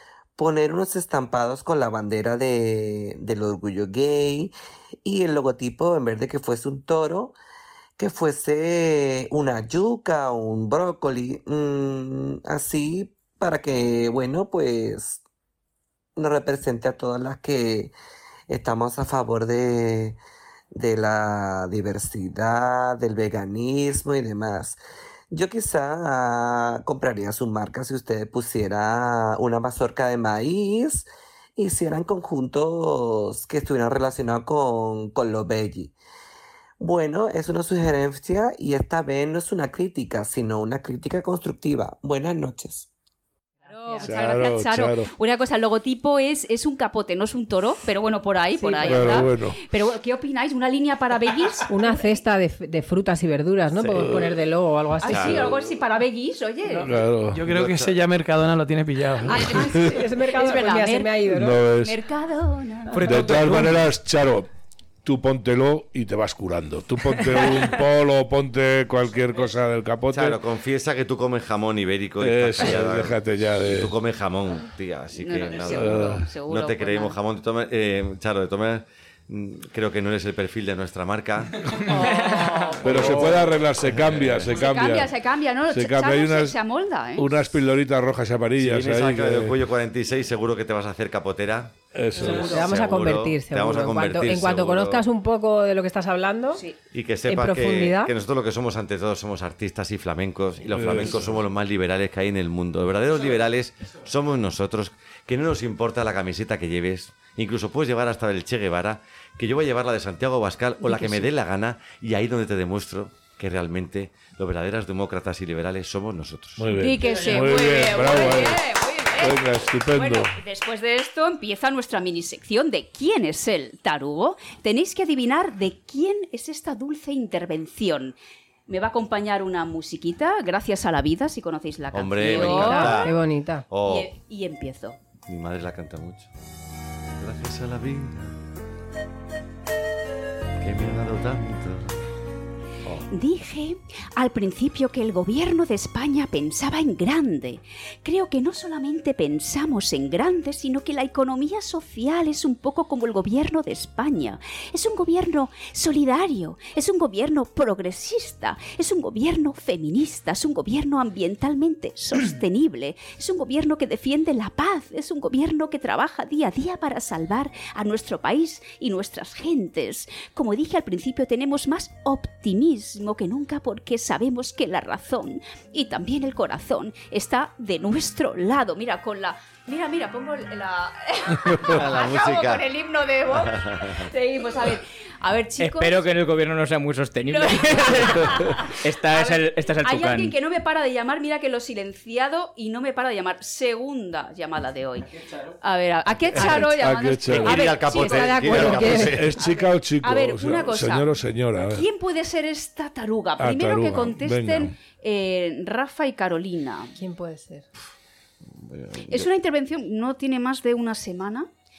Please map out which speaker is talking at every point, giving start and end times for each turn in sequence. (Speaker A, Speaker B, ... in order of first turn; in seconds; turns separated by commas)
Speaker A: 0.3-4.5, Speaker A: 5.0-7.3, Speaker A: 8.0-15.2, Speaker A: 16.2-17.9, Speaker A: 18.5-20.2, Speaker A: 20.7-24.8, Speaker A: 25.3-35.9, Speaker A: 36.8-42.9, Speaker B: 43.6-52.0, Speaker C: 44.0-45.1, Speaker D: 48.6-49.3, Speaker C: 48.9-49.6, Speaker D: 51.7-55.6, Speaker C: 53.9-54.3, Speaker B: 55.0-56.9, Speaker E: 55.0-55.5, Speaker C: 56.8-57.4, Speaker F: 57.3-59.6, Speaker E: 57.5-58.0, Speaker B: 59.3-63.4, Speaker D: 59.4-61.6, Speaker C: 61.3-62.0, Speaker F: 62.9-63.8, Speaker C: 63.0-64.5, Speaker C: 65.0-70.4, Speaker E: 70.1-81.8, Speaker C: 72.2-74.0, Speaker B: 75.2-77.2, Speaker C: 75.7-76.2, Speaker B: 81.8-83.0, Speaker C: 82.8-85.1, Speaker E: 82.8-84.5, Speaker B: 84.5-87.4, Speaker C: 85.7-86.6, Speaker C: 87.2-89.6, Speaker E: 88.6-95.0, Speaker C: 91.9-92.6, Speaker B: 92.2-92.5, Speaker D: 92.2-96.6, Speaker E: 96.9-116.7, Speaker D: 97.3-98.1, Speaker C: 100.7-101.4, Speaker B: 110.8-111.3, Speaker C: 116.6-118.6, Speaker B: 116.8-128.2, Speaker C: 119.2-120.3, Speaker B: 128.7-133.1, Speaker E: 131.9-133.1, Speaker D: 132.2-133.7, Speaker E: 133.7-134.1, Speaker B: 133.8-135.0, Speaker E: 135.3-136.3, Speaker E: 137.1-138.3, Speaker E: 140.6-142.0, Speaker B: 143.1-186.1, Speaker E: 181.6-182.7, Speaker E: 183.3-184.1, Speaker G: 185.6-190.3, Speaker B: 187.2-201.1, Speaker C: 196.3-201.8, Speaker E: 196.3-196.7, Speaker E: 197.3-199.3, Speaker D: 197.9-199.2, Speaker B: 201.6-206.9, Speaker C: 203.4-204.7, Speaker D: 206.9-207.7, Speaker E: 208.6-209.3, Speaker B: 209.1-211.5